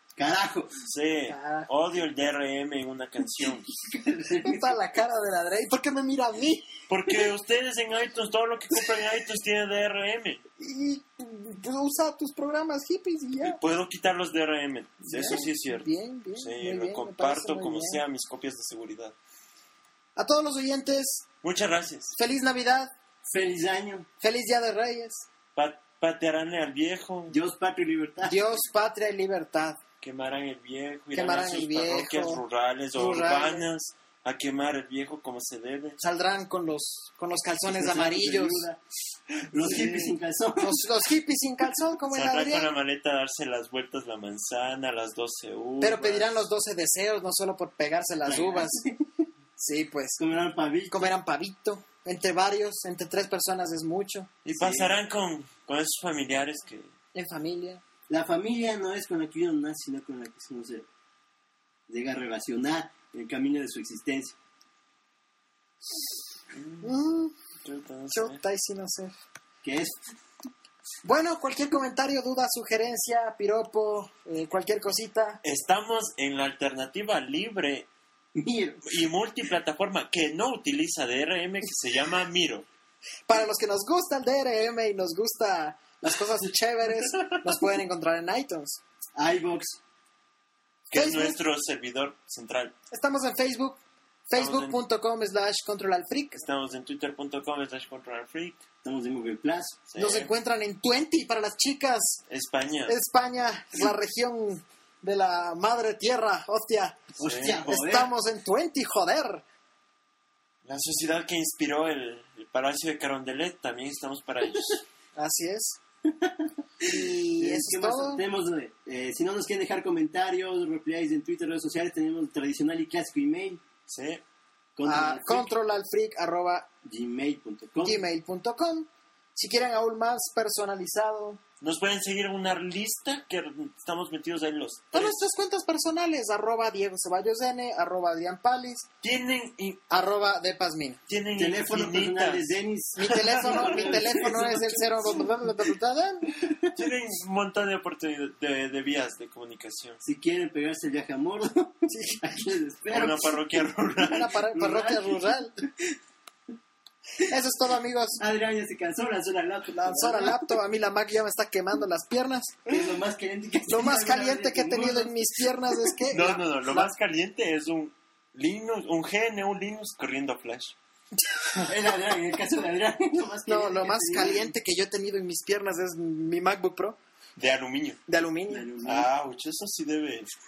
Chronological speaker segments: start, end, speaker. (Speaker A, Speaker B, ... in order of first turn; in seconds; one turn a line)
Speaker A: 0.1-0.8
Speaker B: 0.9-3.7
Speaker C: 1.3-1.7
Speaker A: 3.4-4.8
Speaker C: 4.4-6.7
Speaker B: 6.9-10.4
Speaker C: 10.6-13.6
Speaker B: 13.4-19.1
Speaker C: 15.0-18.0
Speaker C: 20.1-21.2
Speaker B: 21.4-22.1
Speaker C: 22.1-22.9
Speaker A: 23.2-24.1
Speaker C: 24.2-25.3
Speaker B: 25.5-27.4
Speaker A: 27.3-28.4
Speaker C: 28.2-29.8
Speaker B: 30.0-36.0
Speaker C: 31.1-32.4
Speaker C: 32.9-33.6
Speaker C: 36.0-38.7
Speaker A: 37.6-38.8
Speaker B: 39.4-40.2
Speaker A: 39.5-40.9
Speaker C: 40.6-42.7
Speaker B: 42.1-46.3
Speaker C: 45.8-48.8
Speaker A: 48.2-49.0
Speaker C: 49.6-50.2
Speaker A: 50.2-51.1
Speaker C: 50.9-54.3
Speaker B: 54.4-56.9
Speaker A: 54.5-55.0
Speaker C: 57.1-57.8
Speaker A: 58.1-60.9
Speaker A: 61.9-64.4
Speaker B: 66.5-66.9
Speaker C: 66.8-67.3
Speaker B: 67.6-68.4
Speaker C: 68.1-69.1
Speaker A: 69.6-70.0
Speaker C: 71.0-75.4
Speaker B: 75.4-77.9
Speaker A: 78.3-78.9
Speaker B: 78.8-82.7
Speaker C: 83.3-88.8
Speaker A: 89.2-89.8
Speaker B: 90.9-92.7
Speaker C: 90.9-91.4
Speaker C: 92.9-96.4
Speaker B: 94.3-94.8
Speaker B: 96.4-98.6
Speaker A: 98.8-99.9
Speaker B: 99.9-100.3
Speaker C: 99.9-102.2
Speaker B: 102.3-103.0
Speaker C: 102.8-107.0
Speaker A: 107.2-108.1
Speaker B: 107.2-107.6
Speaker C: 107.7-109.4
Speaker B: 110.6-114.8
Speaker C: 115.1-115.8
Speaker A: 116.1-123.6
Speaker C: 116.8-118.2
Speaker B: 123.9-124.2
Speaker A: 124.8-125.5
Speaker C: 124.8-126.7
Speaker A: 126.8-128.0
Speaker C: 127.8-131.4
Speaker B: 131.6-135.2
Speaker C: 134.9-138.9
Speaker B: 139.0-139.8
Speaker C: 139.9-141.0
Speaker B: 141.1-144.3
Speaker A: 141.4-145.2
Speaker C: 143.0-146.4
Speaker A: 146.4-146.7
Speaker B: 146.7-150.0
Speaker A: 150.0-153.6
Speaker C: 151.9-152.2
Speaker B: 152.9-154.3
Speaker C: 154.1-155.6
Speaker A: 154.4-155.9
Speaker C: 157.2-158.2
Speaker A: 158.2-160.6
Speaker C: 159.7-162.7
Speaker A: 162.7-165.9
Speaker C: 163.7-166.9
Speaker B: 166.1-170.7
Speaker C: 171.3-171.7
Speaker A: 171.6-174.5
Speaker C: 173.4-177.0
Speaker B: 177.4-178.0
Speaker C: 178.1-178.7
Speaker A: 178.5-179.1
Speaker B: 178.8-180.3